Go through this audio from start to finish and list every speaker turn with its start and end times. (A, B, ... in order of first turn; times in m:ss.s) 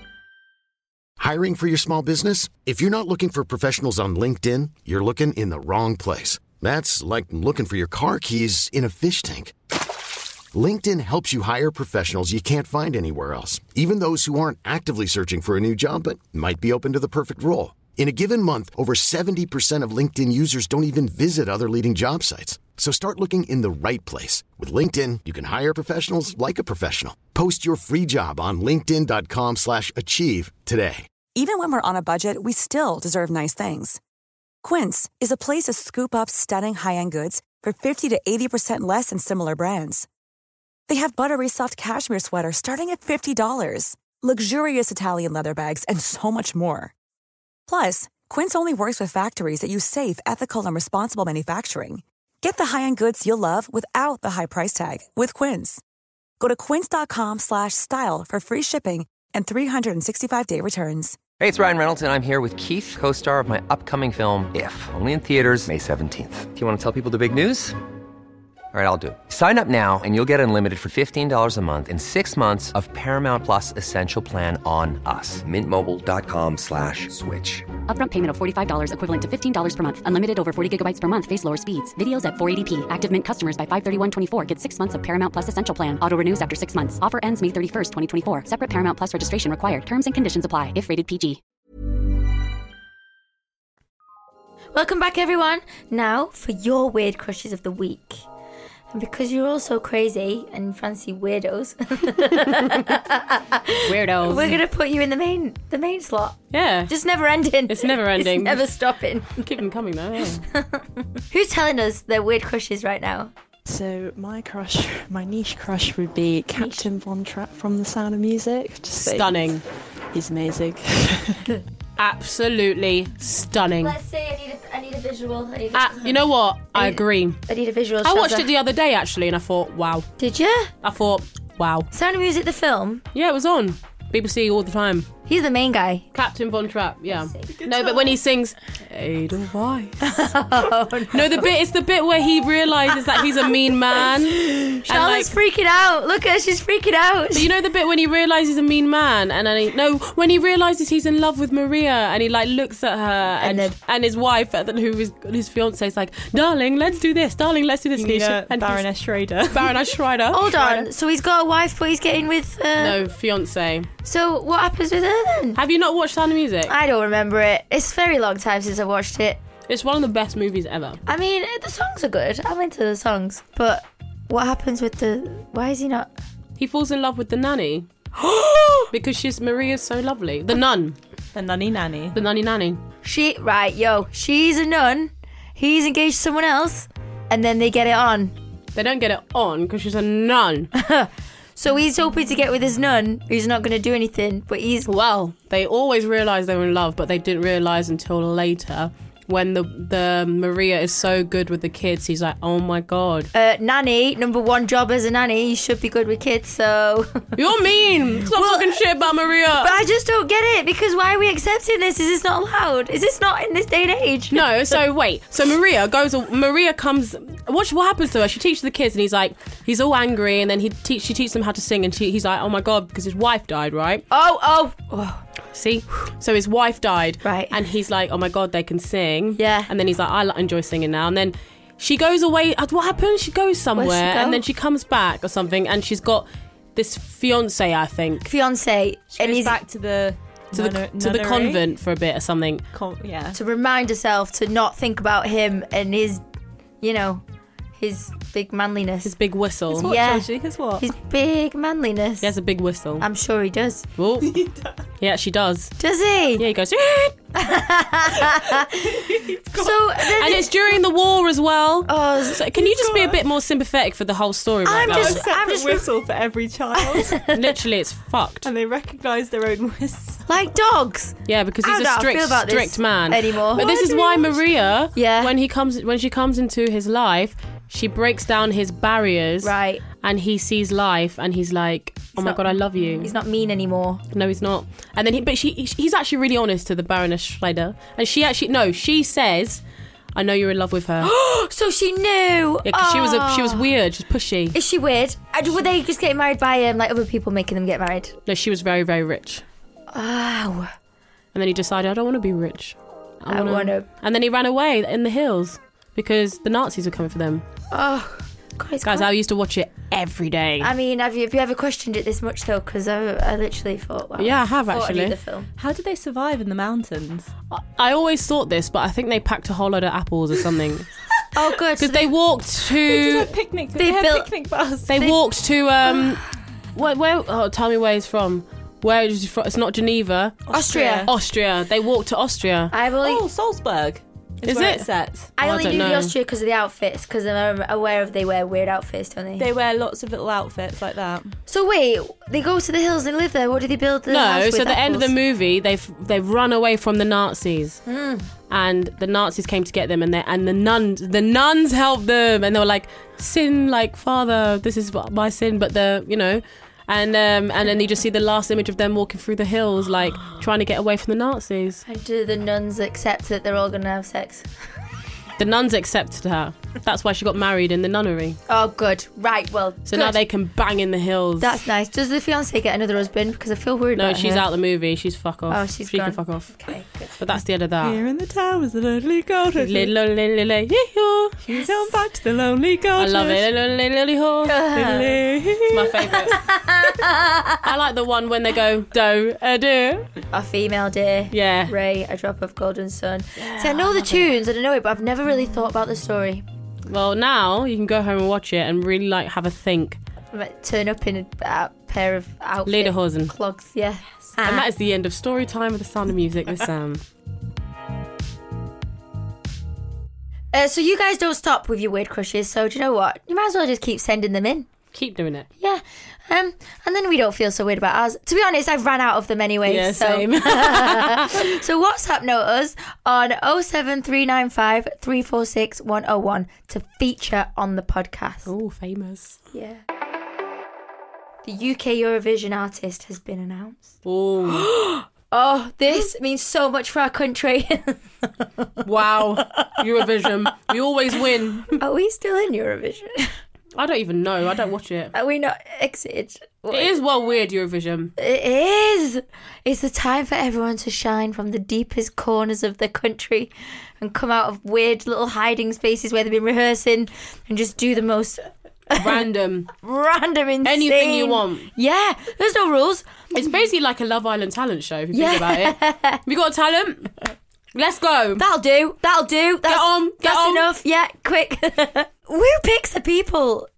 0:01.2-0:09.5 A
0:10.5-0:31.0 A
0:31.3-0:34.0 B
0:34.6-0:40.1 B
0:40.9-0:46.9 B
0:47.7-0:55.8 B
0:56.4-1:01.2 B
1:01.4-1:07.8 C
1:08.7-1:17.7 C
1:17.8-1:31.4 D
1:34.7-1:38.2 E
1:38.9-1:49.5 E
1:43.8-1:44.6 F
1:46.5-1:46.9 F
1:47.7-1:48.7 F
1:49.4-1:50.4 F
1:50.5-1:53.3 E
1:53.6-1:59.5 G
1:56.6-1:56.8 E
1:59.0-1:59.6 F
2:00.1-2:01.4 G
2:02.0-2:03.9 F
2:03.8-2:08.5 E
2:05.7-2:07.4 F
2:08.0-2:10.1 F
2:10.2-2:10.7 E
2:10.8-2:11.9 F
2:11.9-2:13.0 E
2:13.1-2:15.1 F
2:15.3-2:16.0 E
2:16.1-2:20.1 F
2:17.4-2:17.7 E
2:17.6-2:18.1 H
2:20.0-2:21.4 E
2:21.1-2:25.3 F
2:24.0-2:27.5 E
2:27.3-2:38.8 F
2:33.4-2:33.7 E
2:37.9-2:39.8 H
2:39.5-2:40.9 F
2:40.3-2:43.0 E
2:42.8-2:43.9 F
2:44.0-2:45.6 E
2:45.6-2:46.7 F
2:46.7-2:49.4 E
2:49.7-2:51.0 F
2:51.0-2:56.1 E
2:56.6-2:57.9 F
2:58.2-2:58.9 E
2:58.9-3:01.0 F
3:01.3-3:02.2 H
3:02.1-3:02.8 F
3:03.0-3:08.3 E
3:08.7-3:10.7 F
3:10.7-3:14.9 E
3:14.8-3:23.3 F
3:23.3-3:27.4 E
3:27.4-3:29.8 F
3:28.3-3:28.8 E
3:29.6-3:34.4 E
3:34.3-3:44.0 F
3:44.1-3:45.2 E
3:45.5-3:58.3 F
3:47.2-3:47.5 E
3:49.3-3:49.7 E
3:53.8-3:54.4 E
3:58.2-3:59.6 E
3:59.1-4:01.6 H
4:00.5-4:02.6 F
4:02.7-4:03.4 H
4:03.3-4:06.2 E
4:06.8-4:07.2 E
4:07.8-4:09.1 E
4:09.0-4:09.8 F
4:09.7-4:10.9 H
4:09.8-4:12.3 E
4:12.2-4:13.0 F
4:13.0-4:13.8 E
4:14.0-4:14.4 F
4:14.3-4:14.7 H
4:15.0-4:15.8 F
4:15.8-4:16.4 E
4:16.4-4:17.2 F
4:17.3-4:18.9 E
4:18.9-4:19.9 H
4:19.5-4:20.5 E
4:20.2-4:25.2 F
4:21.9-4:23.2 E
4:24.6-4:25.9 E
4:24.9-4:27.3 H
4:26.8-4:27.4 E
4:27.3-4:28.5 F
4:28.4-4:30.2 H
4:30.3-4:34.4 E
4:31.2-4:43.1 F
4:34.9-4:35.3 E
4:39.4-4:39.8 E
4:42.2-4:42.4 E
4:43.0-4:44.0 E
4:44.1-4:49.6 F
4:50.1-4:51.1 F
4:51.0-4:53.6 E
4:52.6-4:54.5 F
4:54.5-4:58.1 E
4:58.3-4:59.4 F
4:59.9-5:00.7 E
5:01.3-5:07.4 F
5:03.3-5:03.8 E
5:07.7-5:09.1 E
5:08.8-5:10.7 F
5:10.6-5:15.5 E
5:14.2-5:15.2 F
5:15.6-5:17.3 H
5:17.5-5:20.9 F
5:21.3-5:22.1 E
5:21.8-5:23.3 F
5:22.8-5:25.0 H
5:23.8-5:24.3 E
5:24.9-5:30.5 F
5:30.5-5:31.1 H
5:30.5-5:31.1 E
5:31.1-5:32.7 F
5:32.7-5:33.2 E
5:33.0-5:35.3 H
5:34.4-5:36.1 F
5:35.4-5:39.5 E
5:39.4-5:41.4 H
5:41.5-5:45.1 E
5:44.1-5:47.8 F
5:47.8-5:48.3 E
5:48.5-6:01.8 F
6:01.8-6:04.5 E
6:05.4-6:08.4 F
6:08.5-6:10.2 E
6:09.9-6:11.6 F
6:11.4-6:14.4 E
6:13.9-6:16.5 F
6:15.5-6:17.2 E
6:17.2-6:18.0 F
6:17.8-6:19.9 H
6:19.6-6:21.4 F
6:21.4-6:23.4 H
6:21.4-6:22.0 E
6:23.0-6:24.6 F
6:24.5-6:25.2 E
6:24.7-6:26.0 H
6:25.7-6:26.4 F
6:26.2-6:27.6 E
6:27.6-6:30.1 F
6:30.3-6:36.4 E
6:31.3-6:31.7 F
6:33.4-6:34.3 F
6:36.9-6:40.0 F
6:40.3-6:44.7 E
6:42.7-6:43.3 F
6:44.4-6:47.0 F
6:50.5-6:54.7 E
6:54.9-6:55.5 F
6:55.6-7:08.5 E
6:59.6-7:01.4 F
7:08.5-7:09.4 F
7:09.5-7:09.8 E
7:11.4-7:13.9 E
7:14.0-7:14.7 F
7:14.4-7:18.7 E
7:18.8-7:21.8 F
7:21.8-7:23.4 E
7:23.7-7:25.1 F
7:25.1-7:26.9 E
7:26.7-7:28.1 F
7:28.2-7:39.2 E
7:39.0-7:39.7 F
7:39.8-7:43.5 E
7:40.6-7:41.7 F
7:43.3-7:47.2 F
7:45.1-7:46.2 E
7:47.7-7:48.4 F
7:48.4-7:53.7 E
7:49.7-7:50.7 F